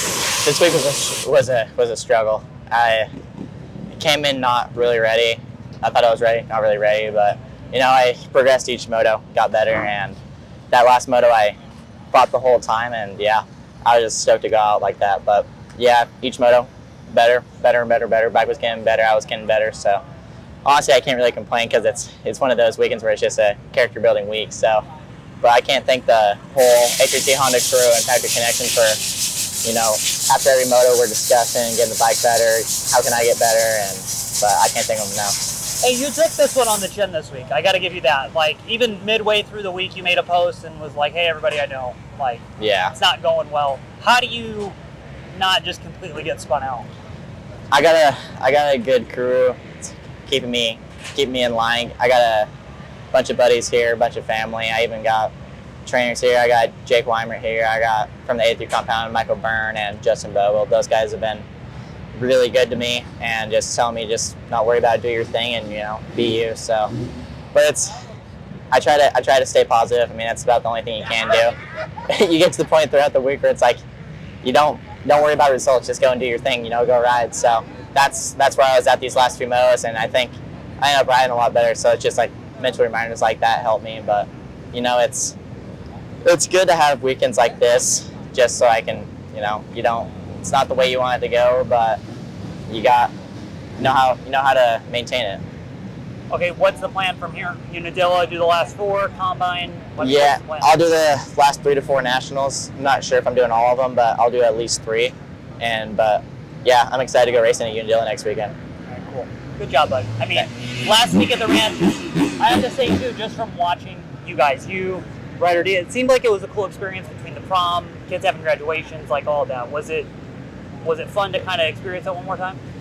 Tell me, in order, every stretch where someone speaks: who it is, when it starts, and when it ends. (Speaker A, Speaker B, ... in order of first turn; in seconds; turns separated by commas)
Speaker A: 0.4-3.1, Speaker A: 3.9-10.2, Speaker A: 10.7-11.6, Speaker A: 12.1-20.0, Speaker A: 20.6-24.9, Speaker A: 25.4-29.0, Speaker A: 29.6-35.4, Speaker B: 35.8-44.8, Speaker A: 42.6-42.9, Speaker B: 45.3-46.9, Speaker A: 47.7-52.5, Speaker A: 53.1-55.3, Speaker A: 55.9-61.5, Speaker A: 62.1-66.9, Speaker A: 67.5-68.0, Speaker A: 68.7-71.5, Speaker A: 72.1-73.8, Speaker A: 74.4-85.3, Speaker A: 86.2-92.0, Speaker A: 92.7-93.1, Speaker A: 93.8-95.4, Speaker B: 96.3-100.8, Speaker A: 100.0-108.5, Speaker B: 108.9-120.1, Speaker B: 120.8-122.6